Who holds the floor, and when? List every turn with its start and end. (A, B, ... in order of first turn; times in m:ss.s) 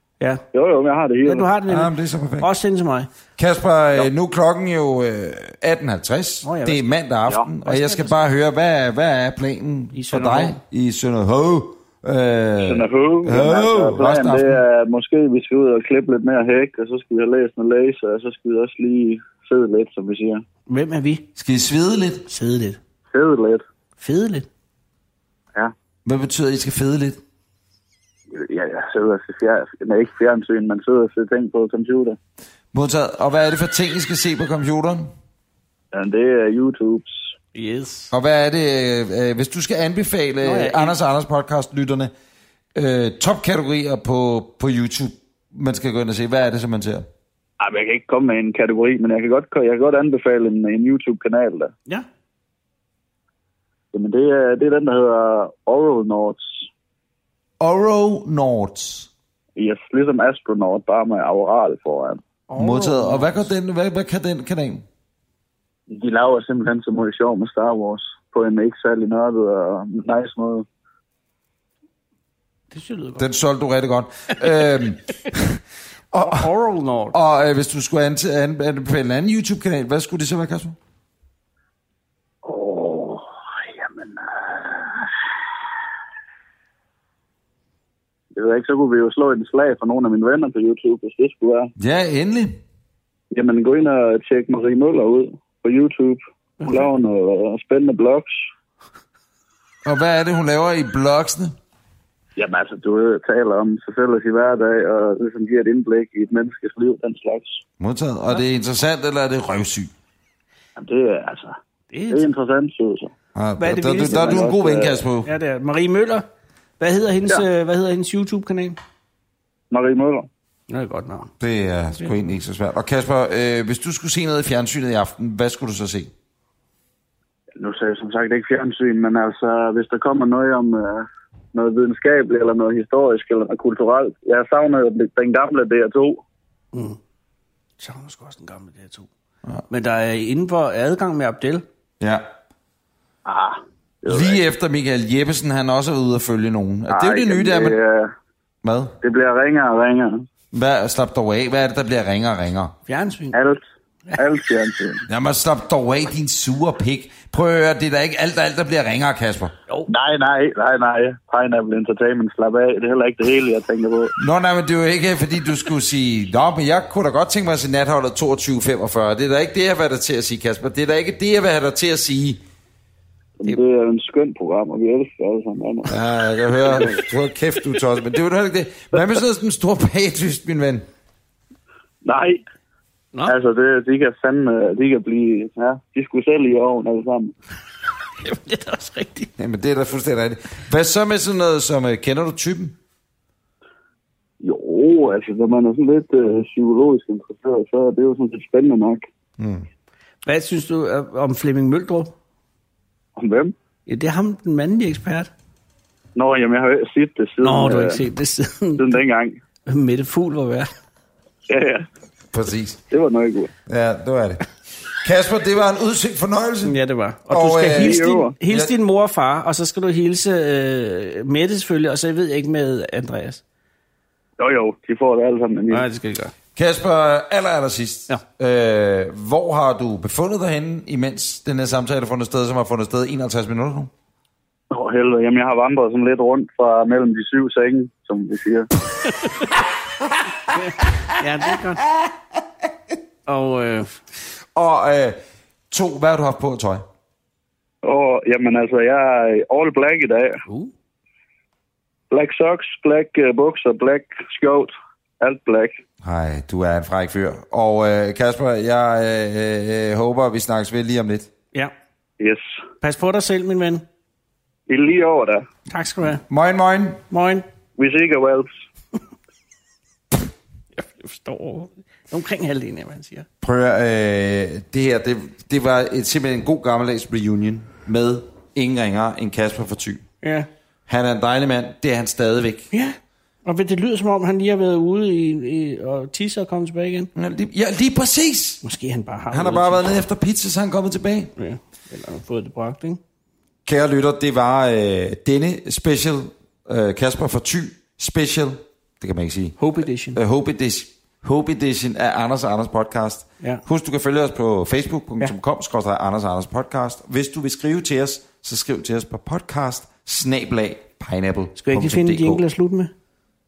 0:00.5-0:01.5 A
0:01.2-0:03.1 B
0:01.7-0:02.5 C
0:03.4-0:14.6 C
0:06.4-0:06.9 B
0:07.6-0:08.2 B
0:09.9-0:10.6 B
0:12.6-0:20.4 A
0:20.7-0:21.3 B
0:21.4-0:22.3 C
0:22.3-0:22.8 B
0:23.1-0:23.6 A
0:24.0-0:24.5 B
0:26.0-0:27.2 C
0:28.3-0:32.2 A
0:32.7-0:35.1 C
0:35.9-0:37.3 A
0:37.5-0:38.1 B
0:38.1-0:42.1 C
0:40.4-0:41.0 B
0:42.8-0:47.1 C
0:47.6-0:51.7 A
0:53.9-0:56.7 A
0:57.6-0:59.1 C
0:59.6-1:02.2 A
1:02.5-1:03.5 B
1:02.6-1:04.8 C
1:05.9-1:10.7 A
1:12.7-1:13.3 B
1:13.2-1:16.5 C
1:16.2-1:17.2 B
1:17.1-1:20.8 C
1:22.4-1:23.3 A
1:23.8-1:25.1 A
1:28.4-1:31.7 A
1:31.8-1:32.6 C
1:33.3-1:38.4 A
1:36.6-1:36.9 B
1:39.8-1:41.6 C
1:42.4-1:47.6 A
1:47.8-1:49.9 C
1:50.8-1:51.6 A
1:51.9-1:52.3 B
1:52.1-1:53.1 A
1:53.4-1:55.3 C
1:53.6-1:54.4 B
1:54.1-1:55.0 A
1:55.2-1:56.2 B
1:56.8-1:58.8 B
1:59.7-2:00.3 A
2:00.7-2:01.3 B
2:01.4-2:06.1 C
2:07.6-2:16.2 A
2:16.7-2:17.0 B
2:17.8-2:19.1 B
2:19.7-2:21.6 B
2:22.0-2:22.3 C
2:23.2-2:24.4 A
2:24.1-2:27.8 C
2:26.9-2:28.1 A
2:28.6-2:29.0 C
2:29.0-2:30.3 A
2:30.5-2:32.7 C
2:32.9-2:33.4 B
2:33.3-2:33.6 A
2:34.2-2:35.1 A
2:35.1-2:39.5 C
2:39.9-2:44.1 A
2:44.2-2:52.4 C
2:53.4-2:55.9 A
2:55.9-3:00.8 C
2:56.7-2:57.0 A
3:02.0-3:02.4 A
3:03.3-3:07.3 A
3:08.2-3:09.3 B
3:09.4-3:12.8 C
3:14.4-3:19.1 A
3:19.4-3:19.7 C
3:20.2-3:22.2 B
3:23.2-3:23.5 A
3:23.9-3:25.3 B
3:26.2-3:28.1 A
3:27.4-3:29.0 B
3:28.8-3:29.4 A
3:29.7-3:30.7 B
3:31.5-3:31.9 A
3:32.3-3:32.8 C
3:32.9-3:33.5 A
3:33.7-3:34.4 C
3:35.0-3:36.8 C
3:36.6-3:43.4 B
3:37.3-3:38.7 C
3:37.7-3:38.4 A
3:44.4-3:45.9 A
3:45.7-3:46.3 B
3:46.6-3:53.9 C
3:54.7-3:58.7 A
4:00.5-4:01.8 B
4:03.3-4:04.0 B
4:04.5-4:05.2 C
4:05.7-4:06.8 C
4:07.8-4:10.4 A
4:10.5-4:10.7 B
4:12.1-4:15.8 A
4:16.0-4:21.3 C
4:22.8-4:23.8 B
4:24.7-4:25.5 A
4:25.7-4:26.2 B
4:26.3-4:27.0 C
4:27.1-4:27.4 B
4:27.8-4:28.5 A
4:30.8-4:33.3 B
4:33.4-4:40.0 C
4:40.2-4:40.5 B
4:40.9-4:42.7 C
4:42.7-4:47.1 B
4:47.2-4:48.6 C
4:48.6-4:49.8 B
4:49.3-4:51.3 C
4:51.4-4:53.0 B
4:53.7-4:59.6 C
4:59.6-5:00.2 B
5:00.1-5:12.4 C
5:11.6-5:12.9 B